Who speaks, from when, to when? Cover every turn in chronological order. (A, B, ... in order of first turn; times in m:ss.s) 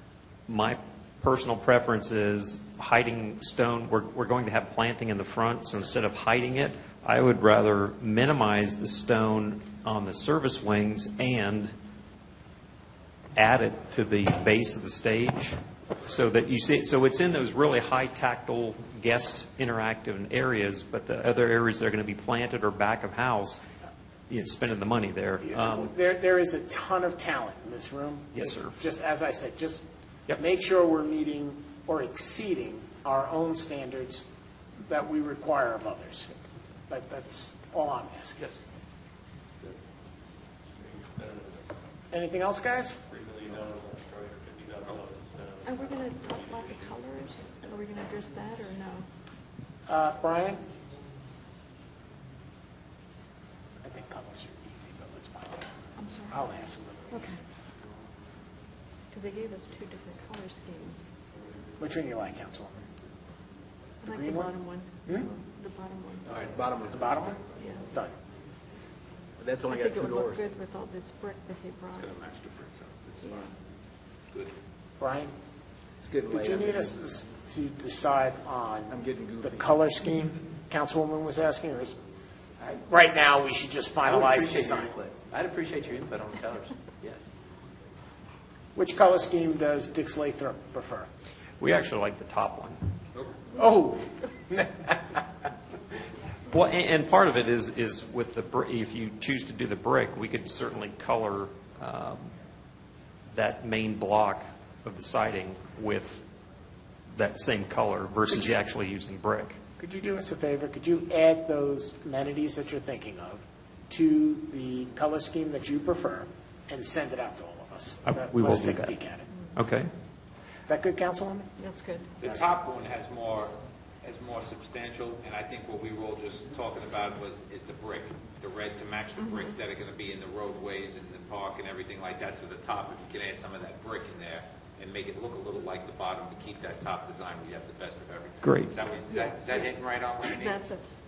0:00.5-0:11.7 A
0:13.4-0:23.6 A
0:24.3-0:25.9 A
0:25.4-0:29.8 B
0:28.3-0:28.7 A
0:30.4-0:34.2 B
0:34.8-0:36.3 B
0:36.9-0:38.5 B
0:40.8-0:41.7 C
0:42.1-0:43.0 B
0:43.1-0:47.0 C
0:45.6-0:49.0 D
0:49.9-0:50.7 B
0:53.8-0:55.7 B
0:56.0-0:56.4 D
0:56.3-0:57.2 B
0:57.1-0:57.4 D
0:59.1-1:01.1 D
1:01.8-1:02.8 B
1:04.0-1:06.6 D
1:04.0-1:04.5 B
1:05.0-1:05.3 B
1:06.2-1:07.4 E
1:06.8-1:07.4 B
1:07.6-1:07.9 D
1:09.4-1:10.4 E
1:09.7-1:12.1 D
1:11.9-1:13.5 F
1:13.2-1:13.5 D
1:15.0-1:15.3 B
1:16.0-1:17.2 E
1:16.3-1:22.0 B
1:18.9-1:19.9 E
1:22.6-1:25.0 B
1:24.0-1:27.2 G
1:28.7-1:31.1 B
1:31.6-1:32.8 A
1:33.5-1:35.0 B
1:36.5-1:42.3 A
1:43.3-1:46.2 A
1:47.1-1:49.6 A
1:49.8-1:59.2 B
1:58.1-1:58.9 A
1:59.5-1:59.9 A
2:00.7-2:01.5 B
2:01.6-2:02.2 D
2:02.2-2:20.7 F
2:09.2-2:09.6 D
2:18.4-2:18.8 A
2:19.0-2:20.8 D